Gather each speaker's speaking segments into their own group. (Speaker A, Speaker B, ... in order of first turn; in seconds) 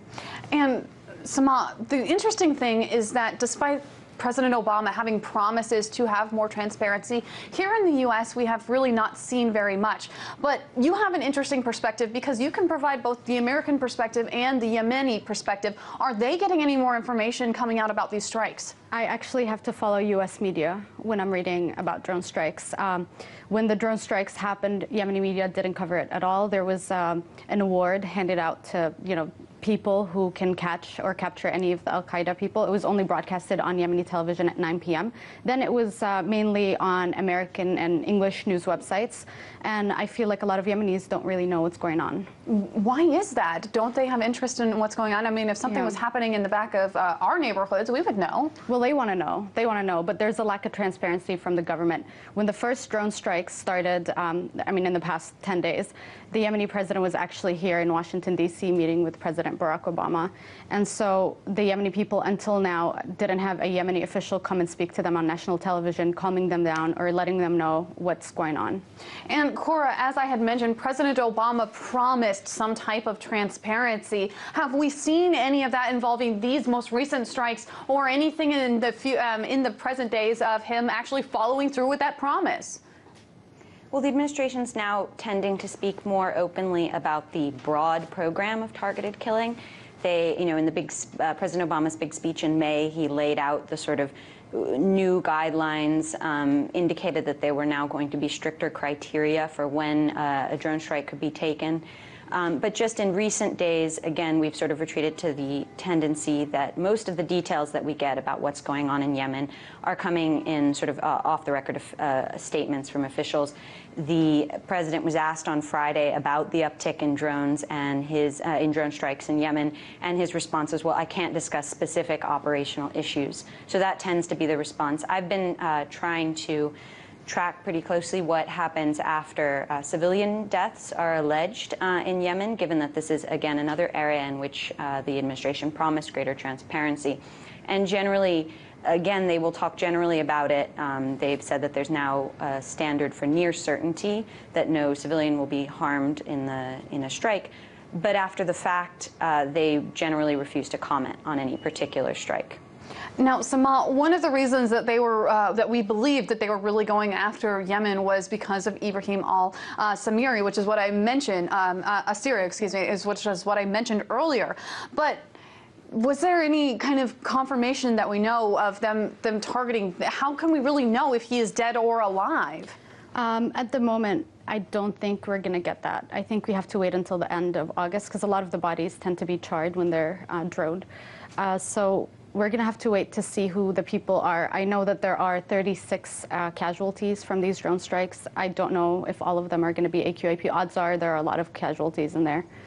Speaker A: 0.5-18.8, 42.5-48.5, 69.3-82.8, 153.2-165.3, 165.9-172.8
Speaker B: 18.9-42.3, 45.7-45.9, 48.7-68.8, 173.2-180.9, 181.4-192.5
Speaker C: 83.9-126.8, 127.3-152.6